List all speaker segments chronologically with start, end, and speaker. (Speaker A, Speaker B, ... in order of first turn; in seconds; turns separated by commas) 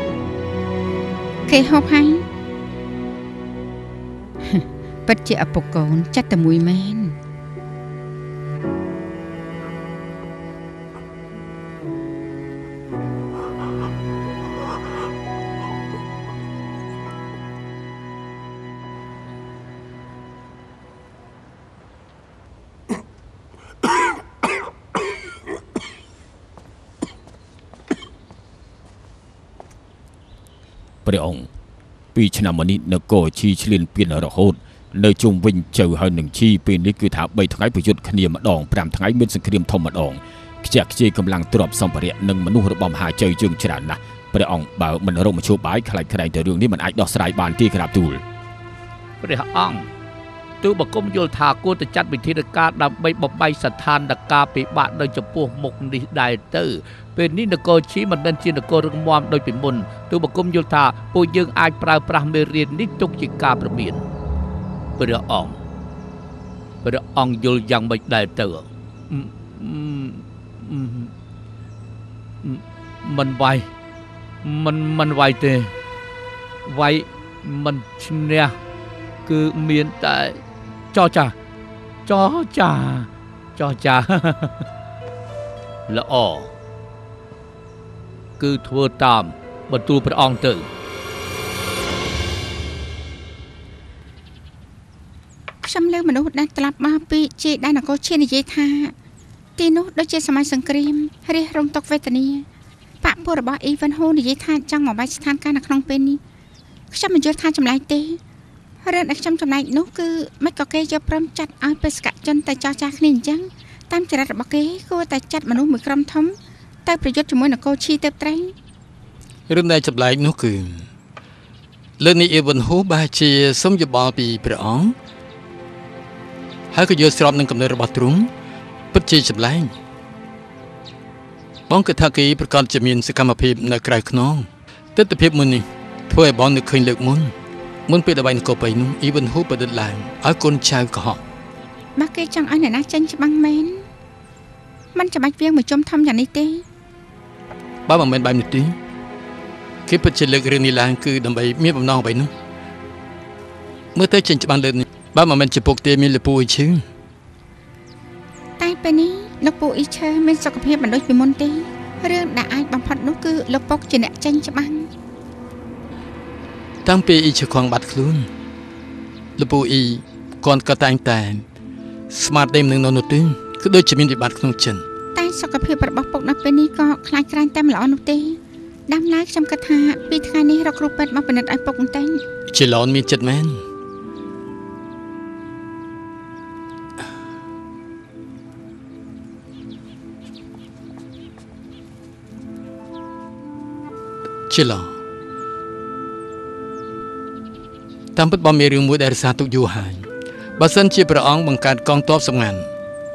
Speaker A: 1.5-2.2, Speaker A: 4.4-7.2, Speaker B: 31.0-31.5, Speaker B: 32.1-48.2, Speaker C: 49.2-49.9, Speaker C: 50.6-64.0, Speaker C: 65.0-65.6, Speaker C: 66.8-71.1, Speaker C: 72.4-73.7, Speaker C: 74.4-75.7, Speaker C: 76.7-78.6, Speaker C: 79.2-80.4, Speaker C: 80.9-81.3, Speaker C: 82.1-84.6, Speaker C: 85.9-86.5, Speaker C: 88.4-90.7, Speaker A: 95.6-98.9, Speaker A: 99.6-102.5, Speaker A: 103.0-106.2, Speaker A: 106.9-108.2, Speaker A: 108.8-118.5, Speaker D: 119.5-120.9, Speaker D: 122.0-124.9, Speaker D: 126.7-128.3, Speaker D: 128.9-129.7, Speaker D: 131.7-137.3, Speaker D: 137.9-141.2, Speaker A: 142.0-143.8, Speaker A: 144.9-146.6, Speaker D: 147.9-148.8, Speaker D: 149.9-152.3, Speaker D: 153.9-156.8, Speaker A: 158.6-164.9, Speaker D: 166.8-168.3, Speaker D: 169.4-171.4, Speaker D: 172.1-174.8, Speaker A: 175.2-182.2, Speaker D: 182.5-183.6, Speaker D: 194.5-194.9, Speaker D: 198.2-200.1, Speaker D: 200.6-202.7